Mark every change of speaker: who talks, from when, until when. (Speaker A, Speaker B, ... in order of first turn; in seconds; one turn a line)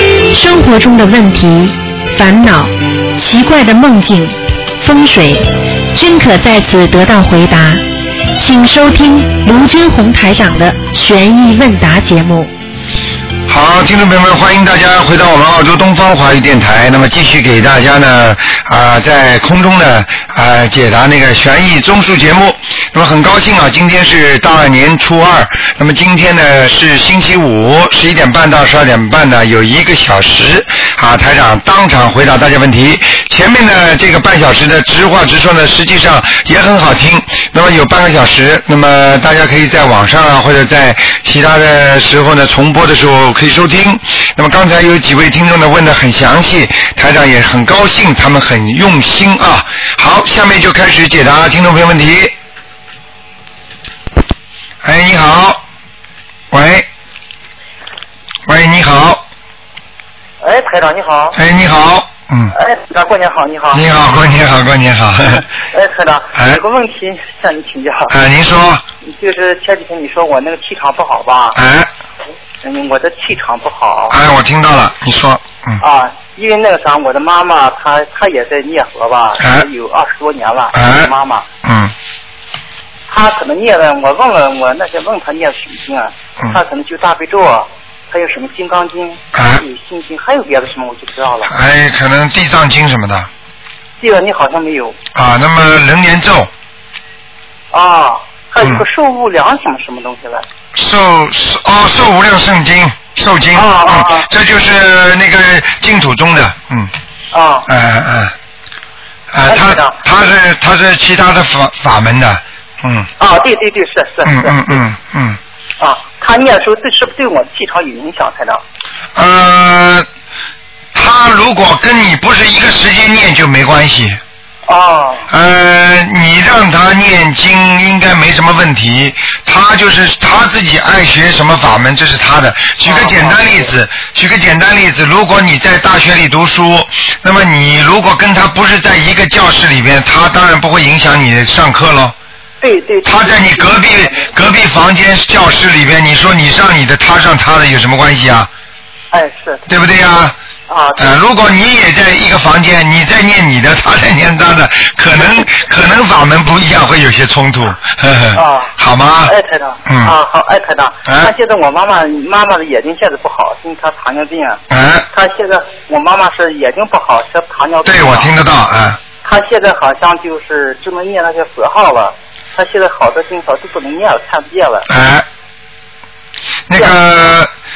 Speaker A: 0.3-7.8
Speaker A: 8.3-12.5
Speaker B: 13.5-52.3
Speaker B: 54.8-55.6
Speaker B: 56.5-56.9
Speaker B: 58.5-59.2
Speaker C: 60.4-61.4
Speaker B: 61.3-62.5
Speaker C: 62.5-63.8
Speaker B: 63.7-65.4
Speaker C: 65.3-68.1
Speaker B: 66.3-66.6
Speaker B: 68.1-68.8
Speaker C: 69.0-71.6
Speaker B: 71.5-71.9
Speaker C: 72.6-74.2
Speaker B: 74.1-75.8
Speaker C: 75.8-81.5
Speaker B: 79.4-79.7
Speaker B: 80.7-81.1
Speaker B: 81.6-81.9
Speaker C: 83.1-91.5
Speaker B: 89.3-89.6
Speaker B: 91.5-93.3
Speaker C: 94.0-95.0
Speaker B: 95.1-96.5
Speaker C: 97.7-100.5
Speaker B: 100.7-106.9
Speaker C: 103.5-104.3
Speaker C: 107.3-107.7
Speaker B: 107.7-108.3
Speaker B: 109.3-113.1
Speaker C: 109.5-110.0
Speaker C: 113.2-114.8
Speaker B: 114.2-115.4
Speaker C: 115.8-118.6
Speaker B: 119.1-120.1
Speaker B: 120.9-124.2
Speaker C: 124.7-125.3
Speaker B: 125.3-142.2
Speaker C: 132.8-133.7
Speaker C: 142.6-144.4
Speaker B: 143.0-148.5
Speaker C: 149.1-149.6
Speaker B: 149.7-150.3
Speaker C: 150.7-151.1
Speaker B: 151.0-159.3
Speaker C: 155.2-155.4
Speaker C: 158.3-164.6
Speaker B: 159.8-160.2
Speaker B: 161.1-161.3
Speaker B: 164.7-165.1
Speaker C: 165.1-168.3
Speaker B: 167.8-169.0
Speaker C: 169.2-174.9
Speaker B: 174.9-175.3
Speaker B: 176.7-177.5